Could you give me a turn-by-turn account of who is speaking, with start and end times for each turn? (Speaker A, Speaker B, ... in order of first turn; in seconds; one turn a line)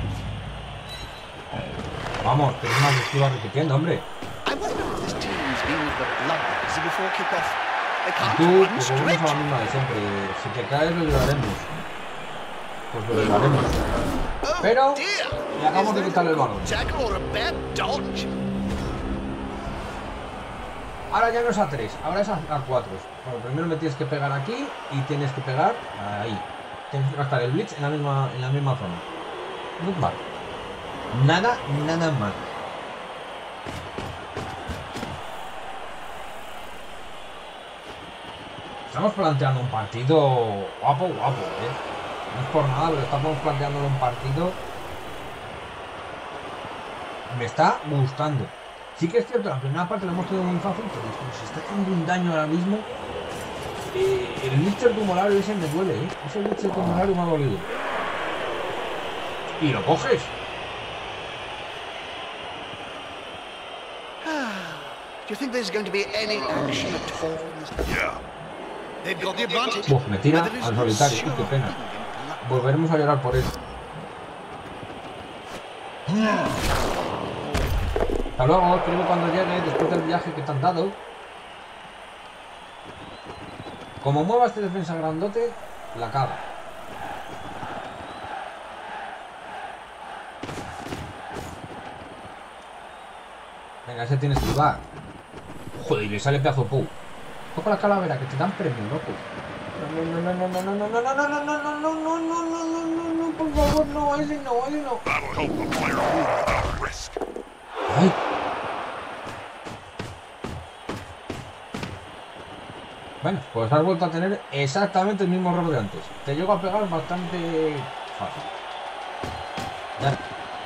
Speaker A: 2.2-4.1
Speaker B: 4.5-9.4
Speaker A: 8.2-11.7
Speaker A: 12.9-14.0
Speaker B: 14.4-18.4
Speaker A: 14.6-16.8
Speaker A: 21.1-29.0
Speaker A: 29.8-30.2
Speaker A: 31.1-32.4
Speaker A: 38.9-41.8
Speaker A: 42.3-44.6
Speaker A: 47.3-52.9
Speaker A: 53.9-57.7
Speaker A: 59.6-60.3
Speaker B: 64.2-68.0
Speaker C: 67.8-68.2
Speaker B: 69.0-72.7
Speaker A: 69.9-71.8
Speaker A: 72.4-73.6
Speaker A: 78.4-81.0
Speaker A: 84.0-86.4
Speaker A: 93.9-94.8
Speaker A: 95.8-96.9
Speaker A: 97.5-99.2
Speaker A: 99.8-105.0
Speaker C: 105.0-107.2
Speaker A: 107.9-108.2
Speaker A: 113.2-118.5